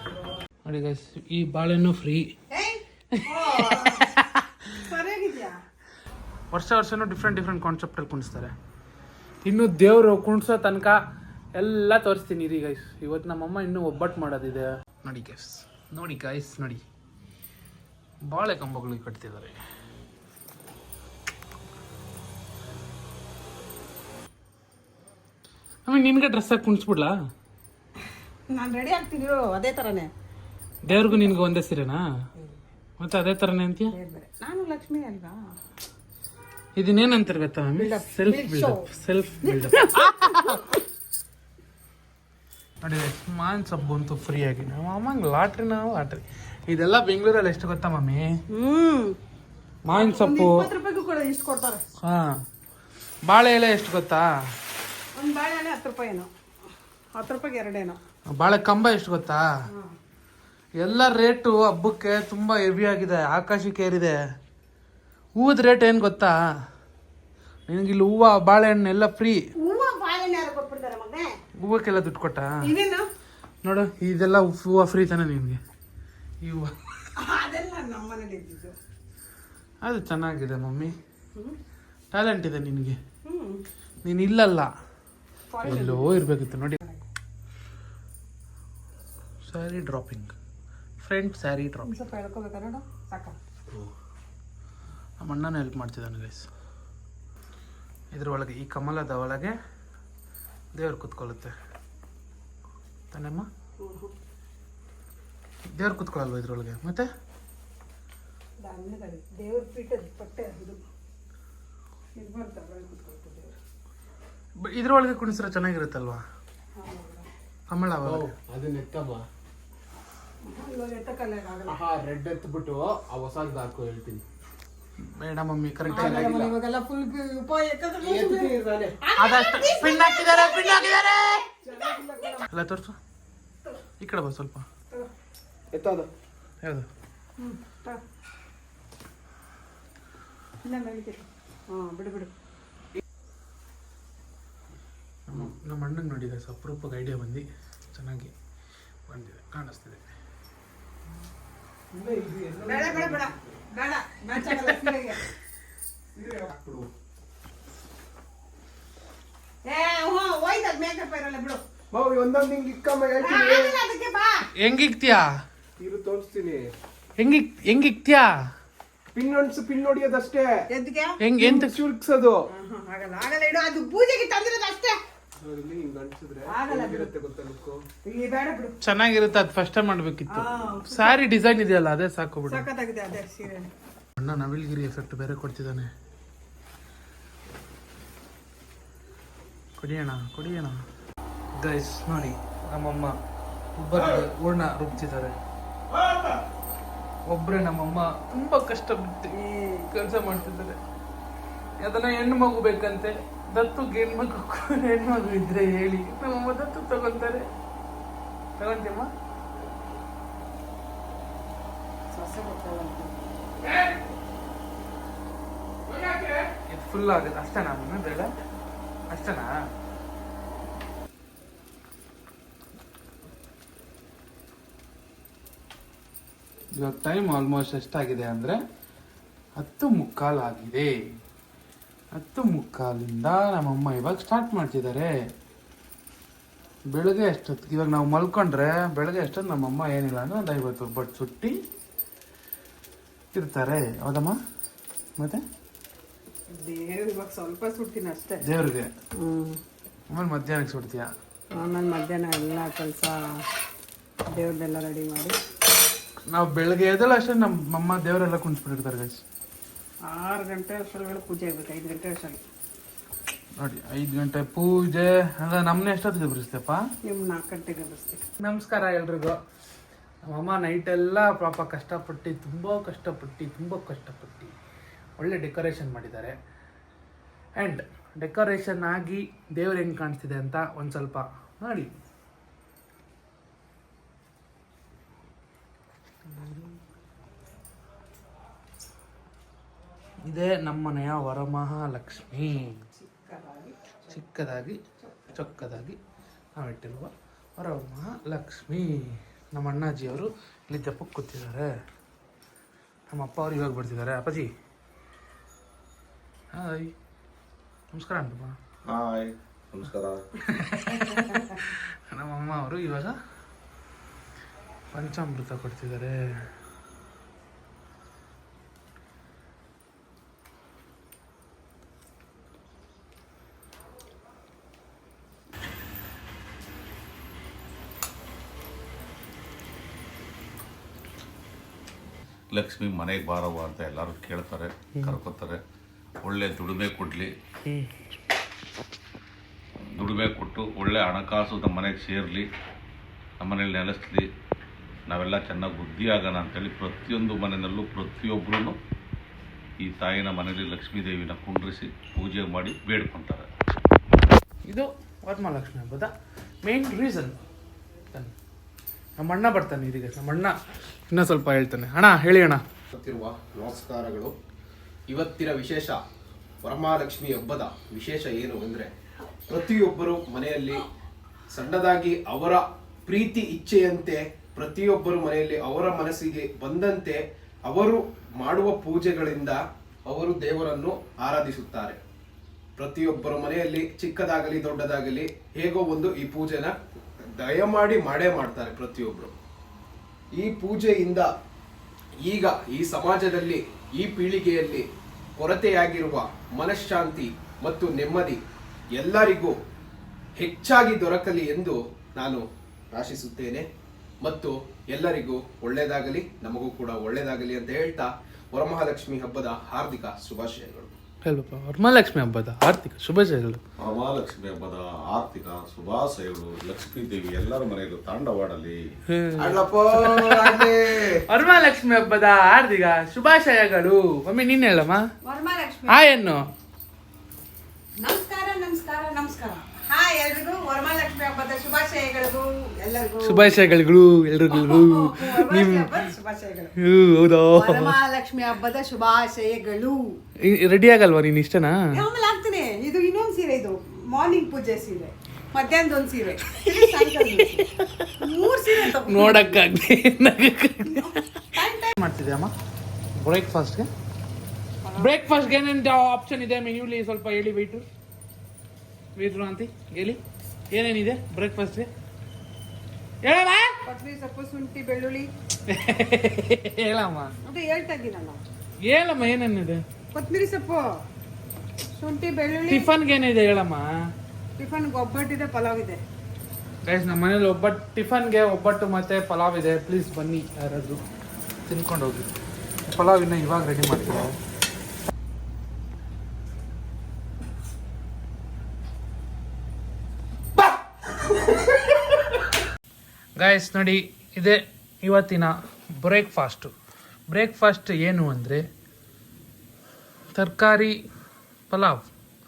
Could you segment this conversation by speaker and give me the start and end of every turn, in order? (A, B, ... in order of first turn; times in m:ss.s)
0:00.6-0:02.3 A
0:02.5-0:04.1 B
0:03.1-0:04.8 A
0:04.8-0:05.6 B
0:06.5-0:08.5 A
0:09.4-0:11.0 A
0:11.6-0:16.8 A
0:18.2-0:19.5 A
0:25.8-0:27.1 A
0:28.5-0:30.1 B
0:30.8-0:32.0 A
0:31.0-0:31.3 B
0:33.0-0:33.9 A
0:33.9-0:35.4 B
0:36.8-0:40.6 A
0:37.8-0:38.9 B
0:39.4-0:40.7 B
0:42.8-0:48.3 A
0:48.5-0:49.2 B
0:49.8-0:50.6 A
0:49.9-0:51.8 B
0:52.0-0:52.4 A
0:53.2-0:54.3 A
0:55.2-0:56.3 B
0:57.1-0:58.0 B
0:58.3-0:59.4 A
1:00.8-1:04.2 A
1:05.4-1:06.3 A
1:07.7-1:09.4 A
1:09.6-1:11.3 B
1:11.6-1:12.5 A
1:12.6-1:13.0 B
1:13.6-1:15.6 A
1:16.4-1:16.7 A
1:17.2-1:18.8 B
1:19.8-1:20.9 A
1:22.1-1:23.0 A
1:23.2-1:23.6 B
1:24.0-1:24.7 A
1:25.5-1:26.2 B
1:25.6-1:26.8 A
1:29.4-1:30.3 A
1:31.0-1:32.0 A
1:31.8-1:33.4 B
1:35.2-1:36.5 A
1:38.1-1:39.5 A
1:40.7-1:41.5 A
1:43.1-1:43.5 A
1:43.8-1:44.1 B
1:45.8-1:47.0 A
1:48.6-1:50.8 B
1:52.2-1:53.6 B
1:54.6-1:56.2 A
1:56.8-1:57.3 B
1:57.7-1:58.3 A
1:58.1-1:59.2 C
2:00.5-2:01.8 B
2:01.7-2:04.2 C
2:05.0-2:06.3 A
2:05.9-2:11.0 B
2:05.9-2:06.5 C
2:08.0-2:08.9 C
2:09.2-2:11.4 A
2:11.6-2:12.5 B
2:11.8-2:12.3 C
2:12.5-2:13.0 A
2:14.0-2:14.6 A
2:15.7-2:16.1 C
2:17.4-2:18.0 B
2:20.6-2:22.3 B
2:25.3-2:28.3 A
2:29.1-2:30.0 A
2:31.9-2:33.2 C
2:32.6-2:35.2 B
2:36.2-2:36.8 C
2:39.6-2:41.6 B
2:41.9-2:43.8 C
2:43.2-2:44.4 B
2:44.6-2:45.3 A
2:45.8-2:46.7 C
2:47.2-2:48.4 A
2:49.1-2:50.6 C
2:50.7-2:51.2 B
2:51.2-2:51.8 A
2:51.4-2:52.4 C
2:52.5-2:55.0 B
2:55.4-2:57.7 C
2:56.4-2:57.1 B
2:58.0-2:58.8 B
2:58.8-3:02.6 A
3:00.3-3:01.2 B
3:02.5-3:03.7 B
3:04.2-3:05.9 A
3:09.8-3:10.8 A
3:11.6-3:13.1 A
3:13.8-3:15.3 A
3:17.3-3:19.4 A
3:19.3-3:19.9 B
3:19.9-3:20.8 A
3:21.8-3:27.5 A
3:28.6-3:29.1 A
3:32.1-3:33.1 B
3:35.9-3:38.3 A
3:39.1-3:39.5 A
3:46.7-3:48.6 A
3:49.6-3:51.0 A
3:52.1-3:55.1 A
3:56.9-4:01.5 A
4:03.3-4:04.4 A
4:05.2-4:05.4 A
4:06.5-4:08.4 B
4:08.4-4:08.9 A
4:09.2-4:09.6 B
4:10.1-4:11.1 A
4:11.6-4:13.2 B
4:14.3-4:15.4 B
4:16.3-4:19.2 A
4:20.1-4:22.4 B
4:23.6-4:26.8 A
4:27.0-4:28.2 B
4:28.4-4:29.4 A
4:30.2-4:34.5 A
4:35.2-4:36.3 A
4:37.6-4:42.0 A
4:50.2-4:52.8 A
4:52.9-4:54.2 B
4:54.1-4:54.8 A
4:55.0-4:55.3 B
4:55.3-4:56.0 A
4:56.6-5:01.7 A
5:03.1-5:04.5 A
5:06.5-5:06.9 A
5:07.9-5:08.6 A
5:08.8-5:10.2 D
5:10.5-5:13.1 A
5:14.9-5:16.2 A
5:32.5-5:35.6 D
5:36.2-5:37.3 D
5:40.0-5:42.5 D
5:43.4-5:44.3 D
5:45.1-5:48.8 D
5:49.8-5:53.5 D
5:54.7-5:56.1 A
5:56.6-5:57.4 A
5:59.2-6:00.6 A
6:01.1-6:02.6 A
6:02.9-6:04.3 C
6:05.1-6:06.0 C
6:06.6-6:08.9 C
6:09.5-6:10.8 C
6:11.5-6:22.0 C
6:22.8-6:26.7 C
6:27.4-6:29.3 C
6:30.4-6:31.3 C
6:32.2-6:34.8 C
6:35.4-6:38.4 C
6:39.0-6:39.5 C
6:40.4-6:43.6 C
6:44.2-6:51.0 C
6:51.2-6:53.6 A
6:53.8-6:58.8 D
6:59.1-7:00.6 A
6:59.4-7:00.8 C
7:01.3-7:05.0 A
7:05.2-7:06.0 B
7:05.9-7:06.4 A
7:08.0-7:13.6 B
7:13.2-7:16.0 A
7:14.5-7:16.7 B
7:16.8-7:18.0 A
7:17.5-7:20.0 B
7:20.4-7:21.8 A
7:21.9-7:27.7 B
7:26.6-7:28.2 A
7:28.2-7:29.6 B
7:28.7-7:32.5 A
7:31.0-7:31.9 B
7:33.2-7:33.9 A
7:34.8-7:35.1 B
7:35.0-7:37.8 A
7:39.2-7:41.9 A
7:43.2-7:43.7 A
7:43.8-7:45.3 B
7:45.7-7:47.3 A
7:47.4-7:48.4 B
7:48.8-7:49.8 A
7:50.1-7:50.8 B
7:52.0-7:52.9 B
7:52.7-7:53.9 A
7:54.6-7:56.0 B
7:56.8-8:01.0 A
8:01.7-8:02.3 A
8:02.9-8:04.3 A
8:13.4-8:16.7 A
8:17.3-8:18.6 A
8:20.3-8:20.9 A
8:21.7-8:22.0 A